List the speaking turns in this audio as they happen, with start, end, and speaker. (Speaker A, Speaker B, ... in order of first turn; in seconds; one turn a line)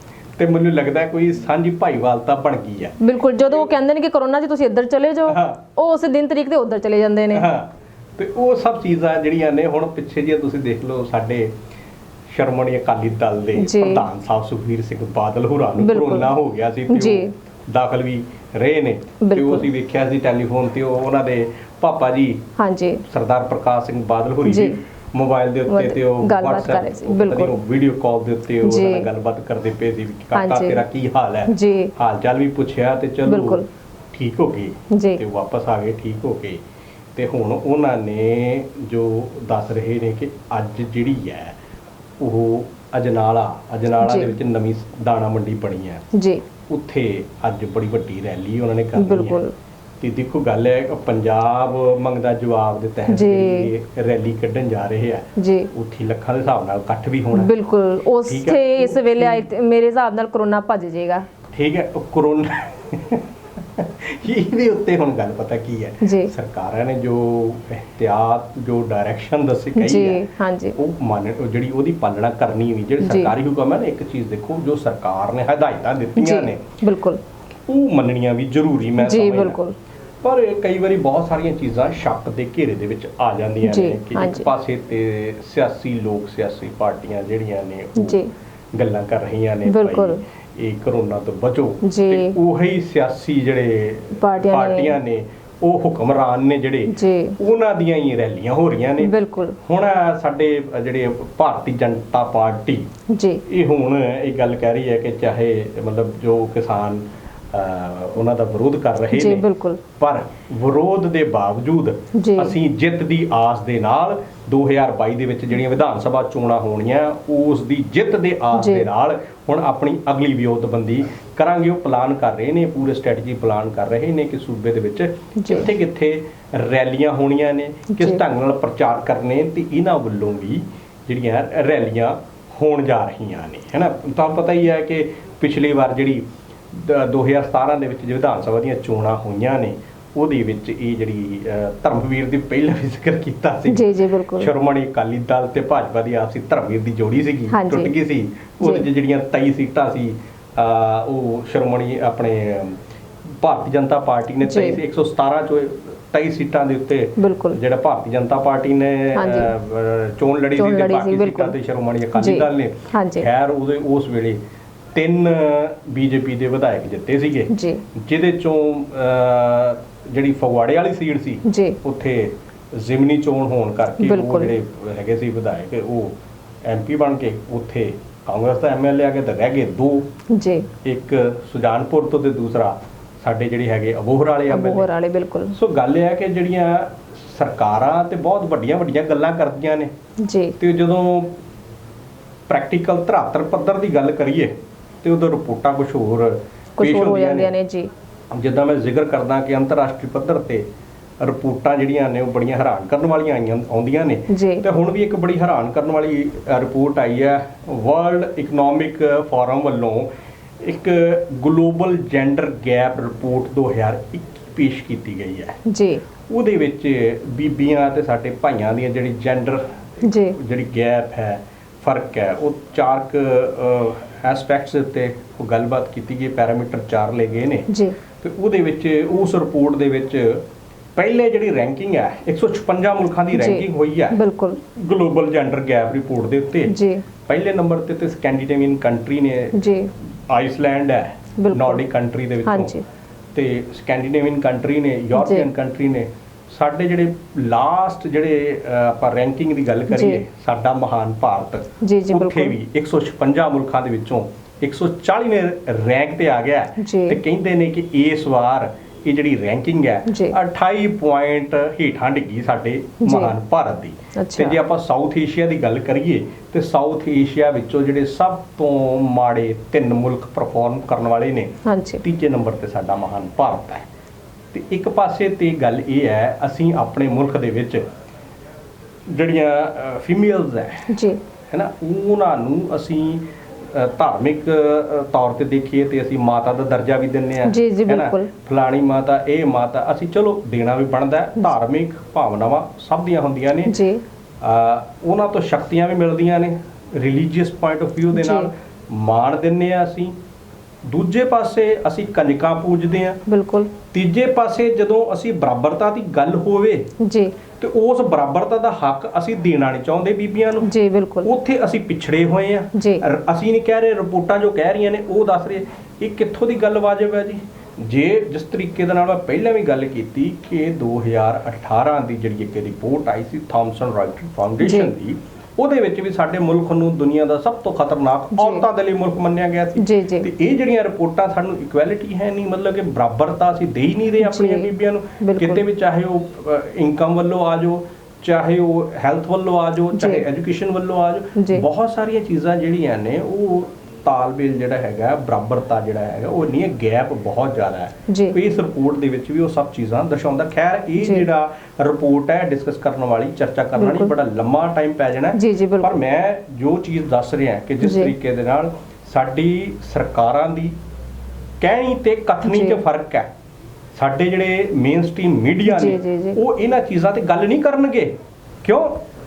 Speaker A: 0.4-3.7
Speaker B: 3.0-7.5
Speaker A: 5.3-5.6
Speaker A: 7.3-11.5
Speaker A: 12.3-22.4
Speaker B: 13.6-14.0
Speaker B: 15.8-16.3
Speaker B: 16.9-17.3
Speaker B: 19.2-19.7
Speaker B: 22.6-23.0
Speaker A: 23.1-36.6
Speaker B: 24.4-24.8
Speaker B: 25.7-27.5
Speaker B: 28.6-29.1
Speaker B: 30.3-30.8
Speaker B: 31.5-31.9
Speaker B: 33.2-33.6
Speaker B: 34.9-35.2
Speaker A: 37.1-41.5
Speaker A: 42.2-46.0
Speaker B: 44.0-44.4
Speaker B: 46.1-46.4
Speaker A: 46.7-49.4
Speaker B: 49.0-49.5
Speaker A: 50.0-57.5
Speaker B: 53.1-53.7
Speaker B: 55.4-55.7
Speaker B: 57.3-61.2
Speaker A: 58.2-59.5
Speaker A: 61.5-70.2
Speaker B: 66.0-66.3
Speaker B: 69.7-70.8
Speaker A: 70.8-76.7
Speaker B: 73.0-73.3
Speaker B: 76.2-77.2
Speaker A: 77.7-79.6
Speaker B: 79.0-79.7
Speaker A: 80.2-88.2
Speaker B: 83.6-84.5
Speaker B: 88.0-88.3
Speaker A: 88.7-102.9
Speaker B: 89.6-90.2
Speaker B: 91.8-92.4
Speaker B: 94.2-95.0
Speaker B: 96.9-97.4
Speaker B: 99.0-99.6
Speaker B: 103.1-103.4
Speaker A: 103.5-109.4
Speaker B: 109.1-109.8
Speaker A: 110.0-152.8
Speaker B: 112.1-112.5
Speaker B: 118.5-118.9
Speaker B: 125.3-125.7
Speaker B: 127.9-128.2
Speaker B: 143.7-144.5
Speaker B: 147.5-147.9
Speaker B: 148.6-148.8
Speaker A: 153.4-164.4
Speaker B: 154.4-154.8
Speaker B: 157.2-157.6
Speaker B: 159.1-159.5
Speaker B: 160.6-161.5
Speaker B: 162.1-163.3
Speaker A: 164.9-180.1
Speaker B: 167.5-167.8
Speaker B: 171.4-171.8
Speaker B: 174.0-174.5
Speaker B: 180.3-180.7
Speaker A: 180.8-184.9
Speaker B: 184.5-185.6
Speaker A: 185.5-189.9
Speaker B: 190.2-190.6
Speaker A: 190.6-191.3
Speaker A: 192.5-197.5
Speaker B: 196.8-197.9
Speaker A: 198.3-200.6
Speaker A: 201.2-210.1
Speaker B: 204.3-204.6
Speaker A: 210.6-215.6
Speaker B: 215.7-216.0
Speaker A: 216.3-230.4
Speaker B: 220.0-220.4
Speaker B: 227.7-228.0
Speaker A: 230.9-236.7
Speaker B: 233.3-234.6
Speaker B: 236.7-237.0
Speaker A: 237.3-239.7
Speaker B: 239.5-239.9
Speaker A: 240.3-242.8
Speaker B: 241.4-241.8
Speaker B: 242.4-242.8
Speaker A: 243.3-273.9
Speaker B: 245.2-245.5
Speaker B: 249.9-250.2
Speaker B: 251.8-252.6
Speaker B: 256.8-257.2
Speaker B: 260.1-260.4
Speaker B: 263.0-263.3
Speaker B: 264.1-264.6
Speaker B: 271.6-272.0
Speaker A: 274.5-277.8
Speaker A: 279.1-280.9
Speaker B: 280.9-281.2
Speaker A: 281.5-293.7
Speaker B: 287.4-288.3
Speaker B: 293.6-294.0
Speaker A: 294.4-300.1
Speaker B: 298.1-298.5
Speaker A: 300.9-303.2
Speaker B: 303.3-303.7
Speaker A: 303.9-306.9
Speaker B: 307.0-307.4
Speaker A: 307.6-310.7
Speaker B: 310.6-311.3
Speaker A: 311.2-360.7
Speaker B: 312.7-313.0
Speaker B: 324.6-324.9
Speaker B: 328.3-328.6
Speaker B: 329.8-330.3
Speaker B: 334.2-335.6
Speaker B: 339.9-340.2
Speaker B: 341.4-341.6
Speaker B: 348.1-348.4
Speaker B: 351.0-351.3
Speaker B: 353.8-354.1
Speaker B: 355.3-356.0
Speaker B: 357.8-358.1
Speaker A: 361.6-363.3
Speaker B: 362.4-362.8
Speaker A: 363.9-369.0
Speaker B: 365.6-366.4